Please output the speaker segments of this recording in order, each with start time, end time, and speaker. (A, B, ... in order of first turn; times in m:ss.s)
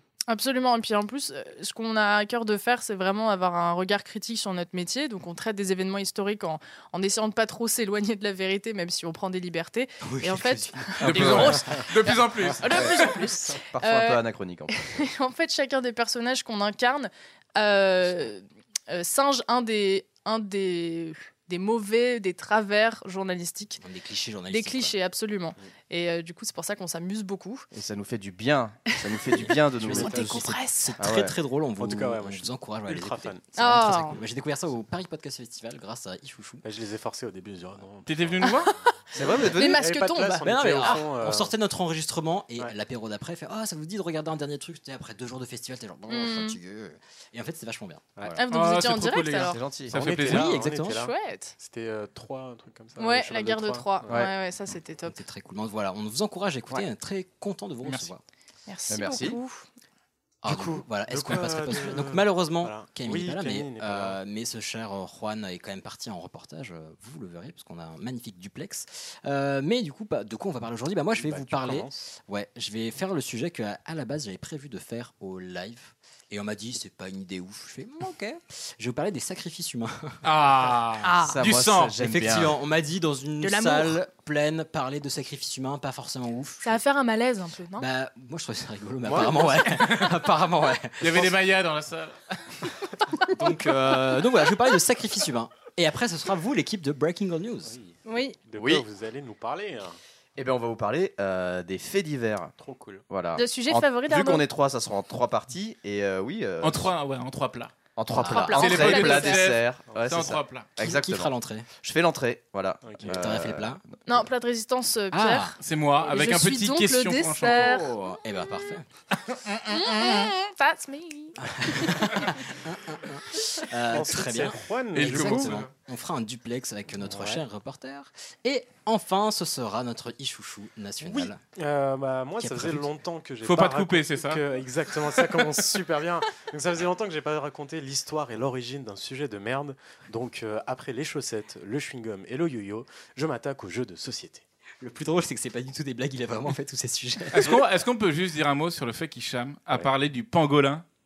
0:00.3-0:23.8 A
0:10.0-0:11.2 B
0:11.0-0:11.6 C
0:11.0-0:13.1 D
0:13.7-0:14.8 C
0:23.8-0:25.0 B
0:24.5-0:27.6 A
0:27.7-0:30.3 C
0:29.4-0:36.6 B
0:29.8-0:30.4 E
0:30.1-0:31.0 A
0:31.0-0:31.3 C
0:31.8-0:33.5 E
0:33.5-0:34.2 A
0:36.6-0:41.5 E
0:38.0-0:38.7 D
0:39.1-0:39.8 C
0:39.5-0:41.0 A
0:40.4-0:48.4 B
0:46.1-0:46.6 A
0:48.4-0:49.6 A
0:48.5-0:50.5 D
0:49.3-0:49.9 C
0:49.9-0:54.2 E
0:50.2-0:51.1 B
0:50.9-0:51.6 A
0:53.0-0:55.1 A
0:55.0-0:58.2 B
0:57.8-0:58.1 D
0:58.7-0:59.6 A
0:58.9-0:59.4 C
1:00.4-1:20.2 B
1:00.4-1:04.2 E
1:11.2-1:12.0 E
1:20.2-1:21.9 D
1:21.0-1:21.4 A
1:21.2-1:22.6 C
1:22.0-1:26.8 B
1:23.4-1:24.0 A
1:26.6-1:27.9 A
1:27.8-1:31.3 B
1:29.0-1:29.6 E
1:29.7-1:30.1 D
1:31.0-1:32.6 D
1:33.3-1:37.8 B
1:37.6-1:40.0 E
1:38.0-1:38.4 A
1:38.6-1:38.8 C
1:40.4-1:42.5 C
1:42.6-1:43.0 E
1:43.1-1:46.9 C
1:43.3-1:44.4 A
1:46.6-1:47.7 D
1:48.0-1:53.9 C
1:48.1-1:48.9 B
1:48.2-1:49.4 A
1:48.5-1:50.7 D
1:49.9-1:50.2 E
1:50.8-1:51.7 B
1:52.8-1:53.2 E
1:53.0-1:53.8 B
1:54.1-1:57.9 A
1:55.1-1:55.5 B
1:55.6-1:57.7 D
1:57.4-1:58.8 B
1:59.3-2:00.3 D
1:59.6-2:02.0 A
2:01.4-2:11.4 B
2:03.9-2:05.6 E
2:04.9-2:05.7 D
2:07.0-2:07.4 E
2:11.0-2:24.4 E
2:12.4-2:12.9 B
2:13.4-2:14.4 D
2:24.8-2:27.6 B
2:27.3-2:30.8 D